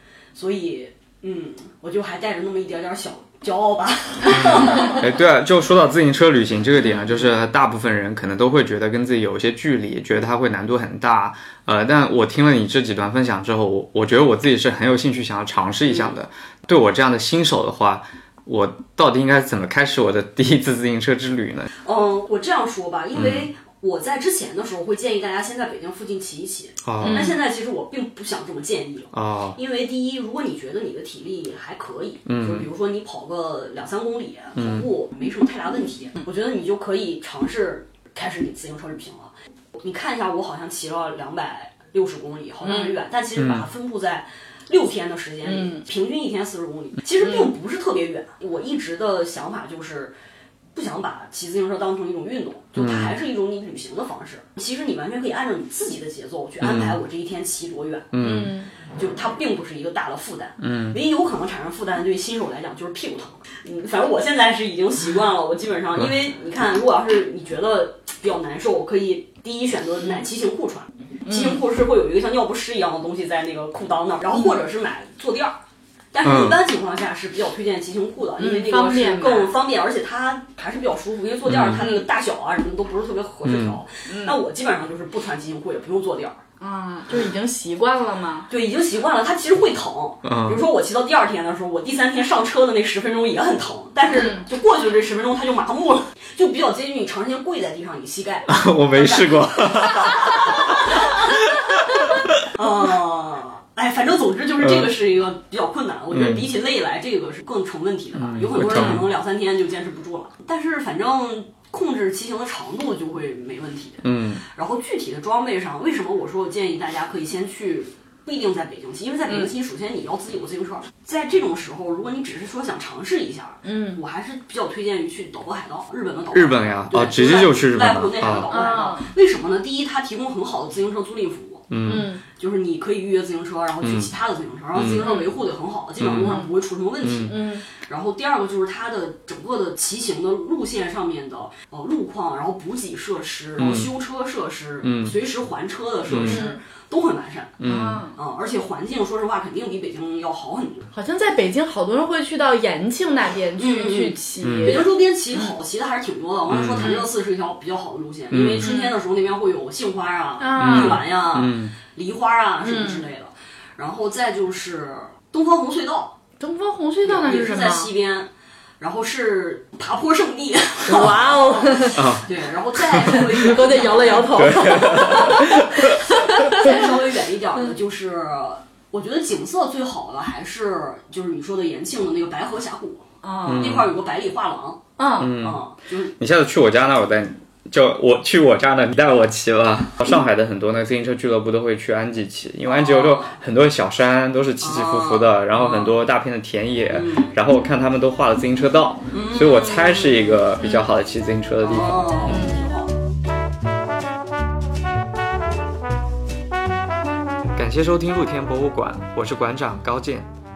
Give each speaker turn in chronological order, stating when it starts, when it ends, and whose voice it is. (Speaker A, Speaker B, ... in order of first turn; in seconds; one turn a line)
Speaker A: 0.3-5.1
Speaker B: 4.3-21.7
Speaker A: 15.8-16.2
Speaker A: 21.8-50.1
Speaker B: 23.1-23.4
Speaker B: 26.8-27.4
Speaker C: 27.0-27.4
Speaker B: 29.1-29.6
Speaker B: 32.3-32.7
Speaker B: 34.5-34.9
Speaker C: 42.6-43.0
Speaker B: 43.4-43.6
Speaker C: 45.4-45.9
Speaker A: 50.7-58.3
Speaker B: 52.8-53.2
Speaker B: 56.6-57.0
Speaker B: 58.1-58.6
Speaker C: 58.2-58.7
Speaker A: 58.9-75.6
Speaker B: 60.6-61.0
Speaker C: 71.2-71.6
Speaker A: 76.1-86.4
Speaker B: 76.2-76.6
Speaker C: 78.4-79.6
Speaker B: 81.5-81.8
Speaker C: 81.8-82.0
Speaker B: 83.4-83.8
Speaker C: 84.1-84.3
Speaker C: 86.6-88.5
Speaker A: 88.5-101.2
Speaker B: 90.2-90.6
Speaker B: 98.5-102.4
Speaker A: 102.5-131.7
Speaker B: 104.6-104.9
Speaker B: 106.1-106.5
Speaker B: 108.1-109.1
Speaker B: 114.0-114.4
Speaker C: 123.6-124.0
Speaker B: 126.3-128.5
Speaker C: 128.5-129.1
Speaker B: 131.7-132.1
Speaker C: 131.8-132.2
Speaker A: 132.3-147.6
Speaker B: 133.8-134.1
Speaker B: 134.7-135.1
Speaker C: 135.0-135.3
Speaker B: 136.0-136.4
Speaker C: 136.1-136.5
Speaker B: 137.0-137.3
Speaker C: 137.3-137.6
Speaker B: 143.6-143.9
Speaker B: 144.8-145.1
Speaker B: 146.1-146.4
Speaker C: 146.2-146.6
Speaker B: 147.6-148.1
Speaker C: 147.6-148.1
Speaker A: 148.1-150.9
Speaker C: 150.9-155.5
Speaker A: 153.6-166.2
Speaker B: 154.4-154.8
Speaker B: 156.5-156.9
Speaker B: 158.3-158.7
Speaker C: 158.6-158.9
Speaker C: 160.4-161.0
Speaker B: 160.6-161.7
Speaker C: 162.6-163.0
Speaker C: 166.4-167.9
Speaker A: 167.1-168.3
Speaker A: 168.8-186.1
Speaker C: 170.8-172.1
Speaker B: 171.9-173.2
Speaker C: 173.1-176.9
Speaker B: 174.3-176.5
Speaker C: 183.2-183.8
Speaker B: 183.4-183.9
Speaker C: 185.0-185.3
Speaker B: 185.2-185.6
Speaker B: 186.2-202.4
Speaker A: 192.7-193.4
Speaker A: 194.6-196.0
Speaker A: 196.9-197.3
Speaker A: 199.1-200.4
Speaker A: 201.6-202.9
Speaker C: 202.3-202.6
Speaker B: 207.5-210.3